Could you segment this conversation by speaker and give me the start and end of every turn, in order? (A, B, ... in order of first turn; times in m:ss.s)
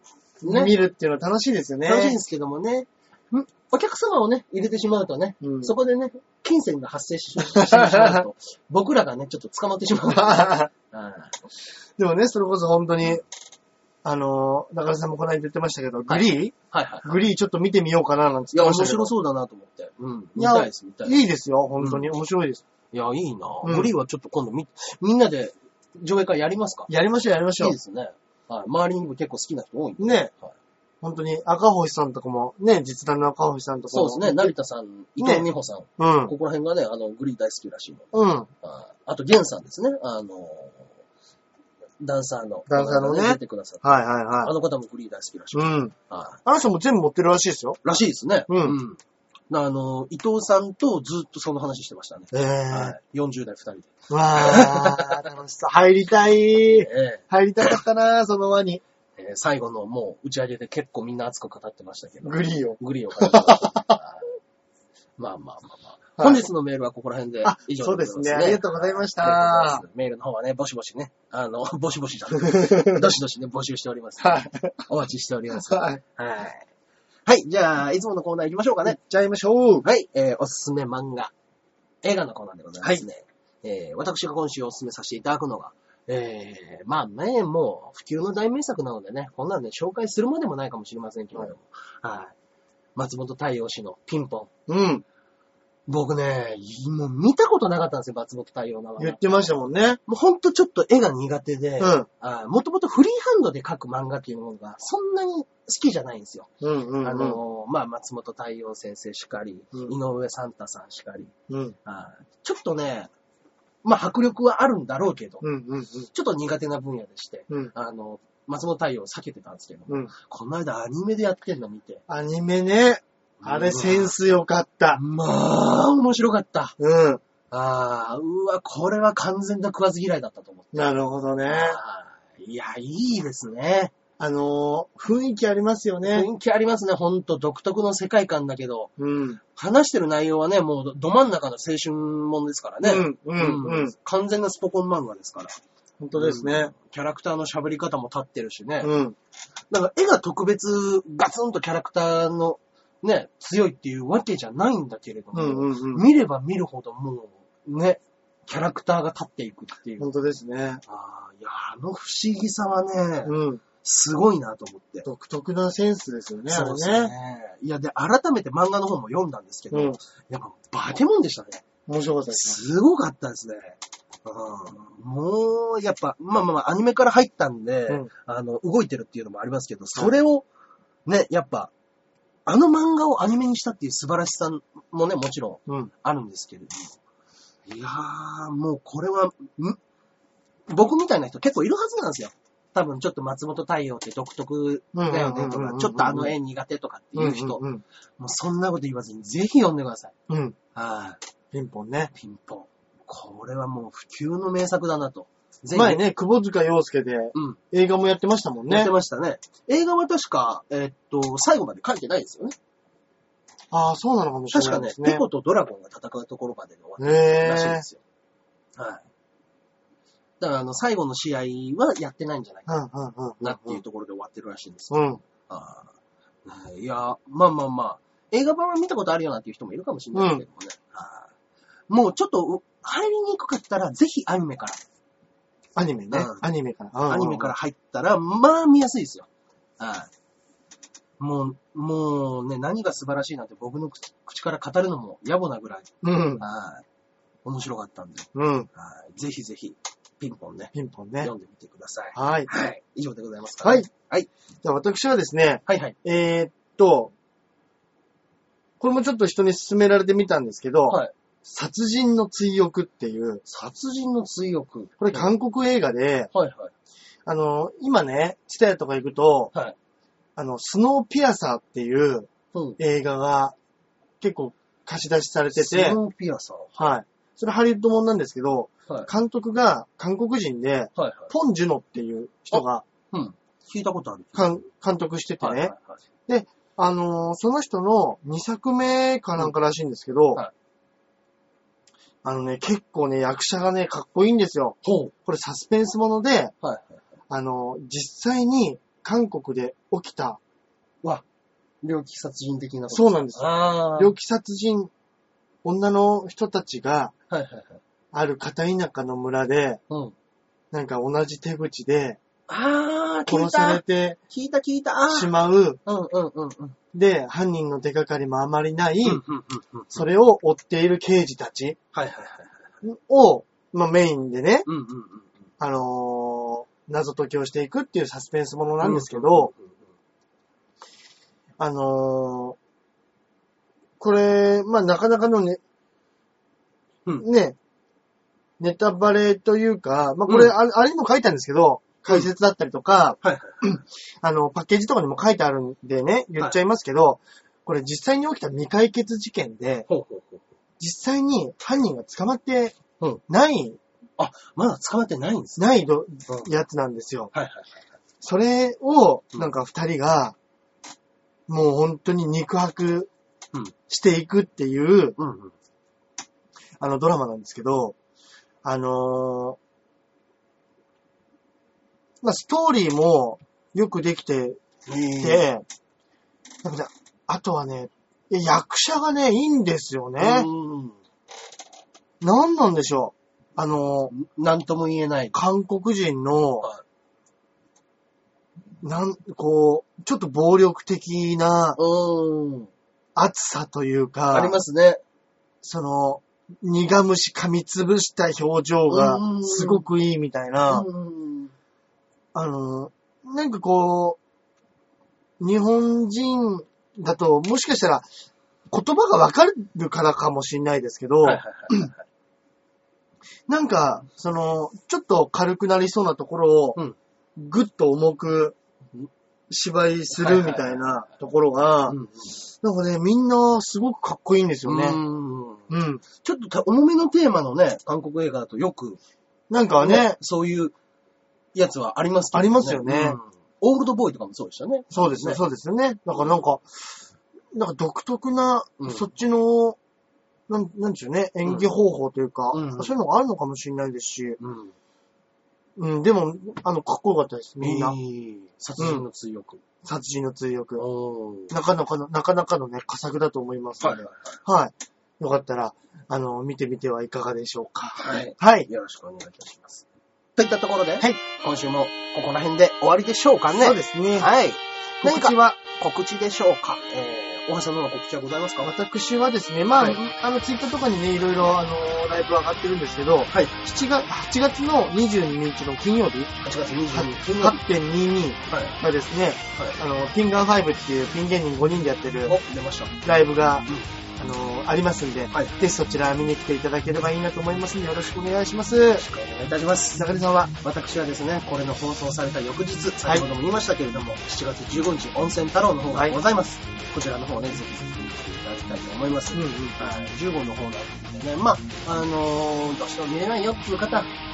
0:00.4-0:02.2 A
0:00.4-0:00.7 B
0:01.8-0:11.4 B
0:05.4-0:05.7 A
0:07.4-0:08.2 A
0:09.9-0:10.7 A
0:12.0-0:13.2 A
0:14.0-0:19.1 A
0:16.1-0:17.2 B
0:18.5-0:21.2 B
0:20.4-0:22.6 A
0:21.8-0:22.1 B
0:22.9-0:26.9 B
0:23.6-0:23.9 A
0:26.9-0:27.8 A
0:27.6-0:30.5 B
0:30.0-0:30.3 A
0:31.0-0:34.5 A
0:33.9-0:40.9 B
0:35.2-0:35.5 A
0:36.0-0:36.3 A
0:38.1-0:38.5 A
0:42.0-0:43.9 B
0:42.7-0:44.5 A
0:44.4-0:46.4 B
0:45.5-0:45.9 A
0:46.4-0:47.8 A
0:47.8-0:55.3 B
0:48.5-0:48.8 A
0:52.3-0:53.0 A
0:54.1-0:58.8 A
0:56.6-0:57.8 B
0:59.2-1:04.3 B
1:02.2-1:04.0 A
1:05.2-1:16.7 B
1:06.2-1:06.4 A
1:07.4-1:09.8 A
1:12.4-1:13.1 A
1:14.2-1:14.8 A
1:15.5-1:16.0 A
1:17.3-1:19.0 B
1:18.8-1:19.9 A
1:19.8-1:21.3 B
1:22.0-1:32.3 B
1:33.0-1:34.5 B
1:34.7-1:35.0 A
1:35.9-1:39.5 B
1:39.0-1:40.0 A
1:40.1-1:46.5 B
1:41.8-1:42.1 A
1:46.6-1:47.4 A
1:47.0-1:51.3 B
1:51.5-1:51.8 A
1:51.8-1:53.1 B
1:53.8-1:55.5 B
1:55.4-1:56.1 A
1:56.1-2:02.0 B
2:02.1-2:05.0 A
2:03.4-2:04.1 B
2:05.0-2:06.8 B
2:06.8-2:07.2 A
2:07.5-2:10.9 B
2:10.7-2:11.8 A
2:11.5-2:13.9 B
2:14.2-2:16.3 A
2:16.1-2:18.9 B
2:19.0-2:19.4 A
2:19.6-2:25.5 B
2:22.8-2:23.9 A
2:26.0-2:26.7 A
2:26.2-2:28.9 B
2:28.8-2:29.2 A
2:29.7-2:40.1 B
2:35.3-2:36.0 A
2:40.0-2:40.8 A
2:40.9-2:45.1 B
2:43.3-2:43.6 A
2:45.1-2:47.1 A
2:46.5-2:51.6 B
2:49.7-2:50.0 A
2:51.9-2:52.6 A
2:52.3-3:00.5 B
3:01.1-3:01.7 B
3:02.5-3:07.0 B
3:07.7-3:09.8 B
3:10.7-3:17.6 B
3:14.9-3:16.4 A
3:17.2-3:17.8 A
3:18.2-3:20.2 B
3:20.3-3:20.6 A
3:20.7-3:21.2 B
3:21.5-3:22.1 A
3:22.1-3:26.0 B
3:25.7-3:28.9 A
3:27.3-3:27.6 B
3:28.7-3:32.6 B
3:33.7-3:35.2 A
3:34.5-3:38.0 B
3:37.0-3:37.8 A
3:38.8-3:39.0 B
3:40.4-3:42.7 B
3:42.7-3:43.8 A
3:43.4-3:45.9 B
3:44.9-3:45.2 A
3:46.4-3:51.3 B
3:50.1-3:50.4 A
3:51.9-3:54.8 B
3:55.8-3:57.5 A
3:56.1-3:56.4 B
3:57.1-3:59.3 B
3:59.8-4:00.1 B
4:01.2-4:06.8 B
4:06.0-4:06.4 A
4:07.4-4:14.3 B
4:08.4-4:08.7 A
4:10.7-4:11.3 A
4:12.2-4:12.5 A
4:14.6-4:17.1 A
4:15.7-4:16.0 B
4:18.8-4:23.4 A
4:23.5-4:25.3 B
4:25.0-4:26.3 A
4:26.3-4:26.7 B
4:27.3-4:29.5 A
4:30.4-4:33.6 A
4:32.5-4:32.8 B
4:34.2-4:36.0 A
4:35.5-4:36.9 B
4:36.8-4:42.8 A
4:41.0-4:41.3 B
4:42.5-4:44.6 B
4:44.3-4:45.7 A
4:45.4-4:46.0 B
4:46.3-4:50.4 A
4:52.2-4:56.5 A
4:54.8-4:55.1 B
4:56.6-4:57.0 B
4:57.3-5:00.4 A
5:01.8-5:04.1 B
5:02.9-5:04.9 A
5:05.6-5:07.1 A
5:07.3-5:07.8 B
5:08.1-5:09.8 A
5:09.9-5:10.2 B
5:10.7-5:12.2 A
5:12.5-5:16.8 B
5:13.3-5:14.2 A
5:15.1-5:15.8 A
5:16.9-5:19.2 A
5:19.0-5:20.0 B
5:19.9-5:21.8 A
5:21.9-5:22.7 B
5:22.8-5:24.7 A
5:24.7-5:25.5 B
5:25.6-5:29.5 A
5:28.8-5:29.8 B
5:31.6-5:32.6 A
5:34.0-5:35.6 A
5:37.2-5:37.6 A
5:38.6-5:49.9 A
5:40.3-5:40.6 B
5:43.2-5:43.7 B
5:49.9-5:50.4 B
5:50.8-5:52.8 A
5:53.3-5:53.8 A
5:54.2-5:55.7 B
5:55.6-5:57.3 A
5:57.3-5:57.8 B
5:58.2-6:00.4 A
6:01.5-6:03.1 A
6:03.9-6:05.2 A
6:05.2-6:05.5 B
6:06.8-6:08.0 A
6:08.6-6:09.6 A
6:12.2-6:14.6 A
6:14.9-6:15.5 B
6:15.2-6:15.6 A
6:16.6-6:20.5 A
6:20.2-6:21.0 B
6:22.2-6:24.1 A
6:24.1-6:25.4 B
6:25.3-6:26.7 A
6:28.8-6:31.8 A
6:31.8-6:32.7 B
6:33.2-6:34.6 A
6:34.3-6:35.0 B
6:35.6-6:40.9 A
6:38.9-6:39.8 B
6:40.7-6:41.5 B
6:42.3-6:44.2 A
6:45.4-6:48.1 A
6:48.7-6:51.9 A
6:51.2-6:52.0 B
6:53.5-6:56.8 A
6:57.4-6:58.6 A
6:59.5-7:02.0 A
7:00.2-7:01.2 B
7:01.9-7:02.4 B
7:02.6-7:05.0 A
7:04.7-7:09.0 B
7:05.7-7:06.0 A
7:09.5-7:10.2 A
7:09.8-7:10.7 B
7:11.5-7:15.4 B
7:12.3-7:13.2 A
7:14.9-7:16.7 A
7:17.5-7:19.8 A
7:18.8-7:19.1 B
7:20.5-7:24.4 A
7:22.5-7:22.9 B
7:24.4-7:24.8 B
7:25.8-7:28.0 A
7:27.6-7:29.6 B
7:28.8-7:29.0 A
7:29.8-7:30.8 A
7:30.8-7:31.6 B
7:31.5-7:38.7 A
7:33.8-7:34.4 B
7:38.0-7:48.7 B
7:43.5-7:44.3 A
7:45.0-7:45.6 A
7:48.6-7:56.3 A
7:49.8-7:50.1 B
7:53.3-7:53.6 B
7:56.4-7:57.6 B
7:56.9-8:02.4 A
7:58.5-7:58.8 B
8:02.3-8:03.0 B
8:03.0-8:09.0 A
8:09.0-8:10.0 B
8:10.0-8:10.5 A
8:10.6-8:24.1 B
8:19.3-8:19.8 A